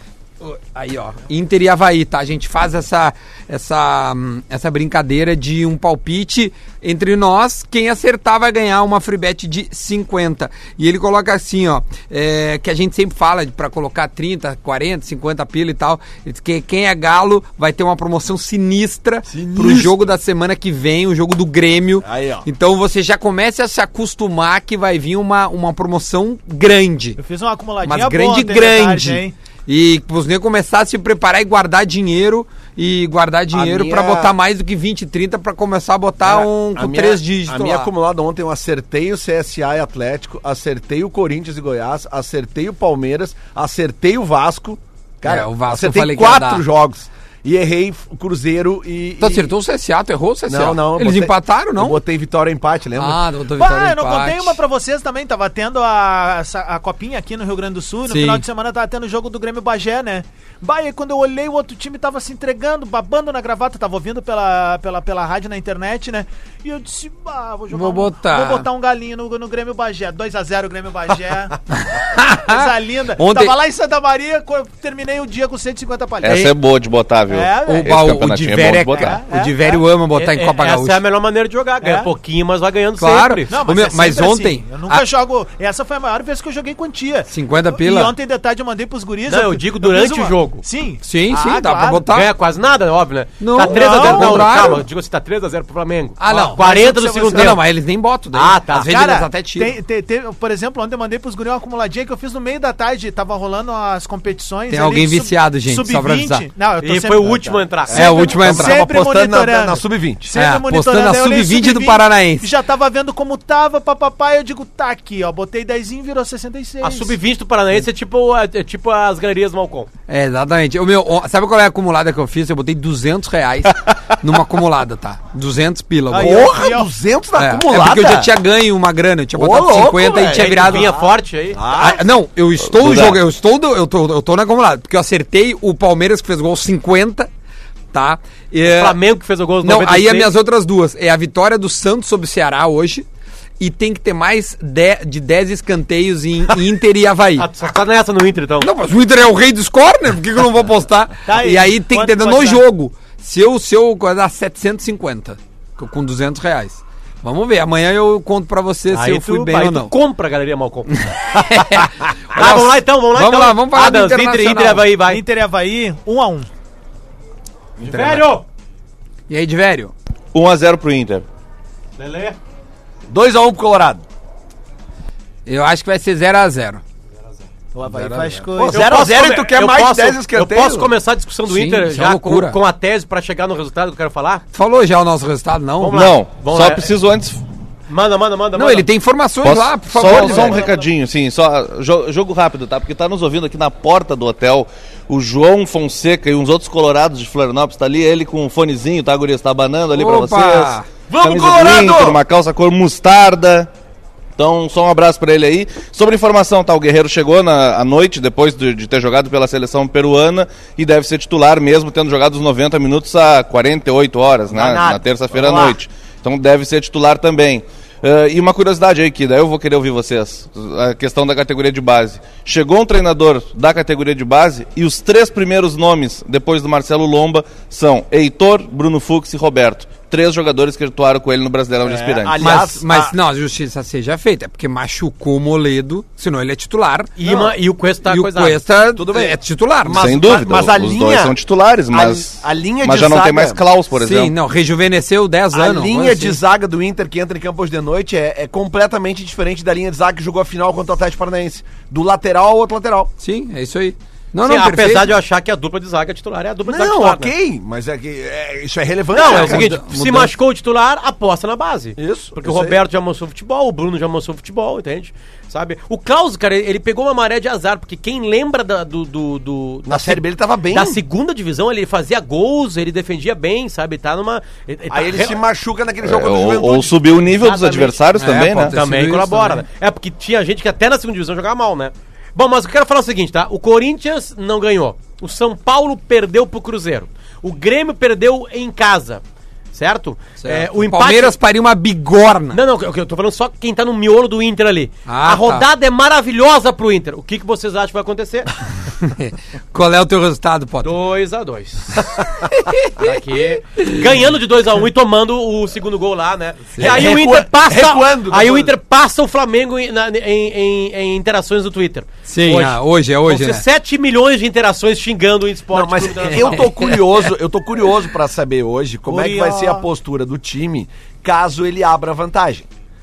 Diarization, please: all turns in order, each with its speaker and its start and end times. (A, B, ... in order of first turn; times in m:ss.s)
0:00.4-0:27.2 A
0:19.3-0:20.1 B
0:22.0-0:22.5 B
0:27.2-0:29.4 C
0:27.8-0:37.9 A
0:33.5-0:34.3 B
0:36.2-0:49.5 B
0:45.2-0:46.6 A
0:49.2-0:52.0 A
0:50.5-0:53.2 B
0:53.0-0:54.6 A
0:53.6-1:11.6 C
0:58.1-0:58.4 A
1:07.7-1:08.7 A
1:11.8-1:13.6 A
1:12.2-1:16.5 C
1:16.2-1:19.2 D
1:16.2-1:16.5 A
1:17.3-1:18.0 C
1:17.6-1:21.0 A
1:18.9-1:19.8 C
1:20.1-1:23.5 E
1:21.8-1:22.1 C
1:23.0-1:25.0 A
1:23.5-1:32.0 C
1:27.3-1:28.1 A
1:29.3-1:30.6 E
1:31.0-1:32.3 A
1:32.1-1:37.6 E
1:33.4-1:34.8 A
1:33.6-1:34.7 C
1:36.2-1:36.6 A
1:36.3-1:37.6 C
1:37.2-1:39.7 A
1:38.3-1:38.9 E
1:38.8-1:57.2 C
1:44.7-1:46.5 A
1:46.8-1:48.3 E
1:47.9-1:48.8 A
1:48.0-1:50.3 B
1:50.4-1:52.5 A
1:56.8-1:59.9 E
2:00.1-2:06.7 A
2:06.1-2:06.9 C
2:06.1-2:08.3 B
2:07.4-2:10.9 A
2:09.4-2:12.0 B
2:10.3-2:11.6 E
2:11.7-2:17.3 A
2:12.6-2:13.2 D
2:17.9-2:19.0 A
2:18.6-2:20.3 E
2:19.6-2:23.1 A
2:23.6-2:27.5 A
2:27.4-2:28.7 E
2:28.6-2:40.0 A
2:31.3-2:32.6 C
2:38.9-2:41.0 E
2:40.9-2:44.9 A
2:42.3-2:45.2 E
2:45.1-2:46.5 C
2:47.8-2:48.5 E
2:47.8-2:48.3 A
2:49.3-2:49.9 A
2:50.3-2:51.2 D
2:52.0-2:52.4 E
2:53.1-2:54.0 B
2:55.5-2:56.8 A
2:57.7-2:59.2 C
2:57.9-2:58.5 A
2:58.6-3:01.0 B
2:58.7-3:04.4 E
3:01.5-3:02.6 A
3:04.5-3:06.1 A
3:05.8-3:06.9 E
3:05.9-3:07.4 D
3:07.9-3:08.9 E
3:08.6-3:10.6 A
3:09.4-3:23.7 D
3:10.3-3:10.6 E
3:19.9-3:20.9 A
3:21.1-3:22.2 B
3:24.4-3:52.5 D
3:34.5-3:35.7 B
3:51.8-3:53.1 B
3:52.4-3:57.1 A
3:57.2-3:58.6 E
3:57.2-3:57.5 B
3:58.0-4:00.2 A
3:59.0-4:01.4 B
3:59.9-4:04.4 D
4:01.9-4:03.6 B
4:03.9-4:06.4 A
4:05.5-4:13.1 B
4:13.2-4:15.2 A
4:14.4-4:17.3 E
4:16.7-4:19.7 B
4:19.1-4:35.4 E
4:19.2-4:20.3 A
4:22.0-4:22.8 B
4:29.9-4:31.0 B
4:34.9-4:37.8 B
4:36.0-4:38.8 D
4:37.3-4:38.0 E
4:38.2-4:39.6 A
4:38.6-4:49.2 E
4:49.7-4:51.4 E
4:50.4-4:52.6 A
4:52.5-4:58.5 E
4:55.1-4:55.7 A
4:59.0-5:01.0 A
5:00.8-5:02.2 E
5:02.4-5:04.1 A
5:03.0-5:16.9 E
5:06.8-5:08.7 B
5:12.3-5:13.6 A
5:15.7-5:22.7 B
5:16.5-5:17.0 A
5:19.1-5:19.9 C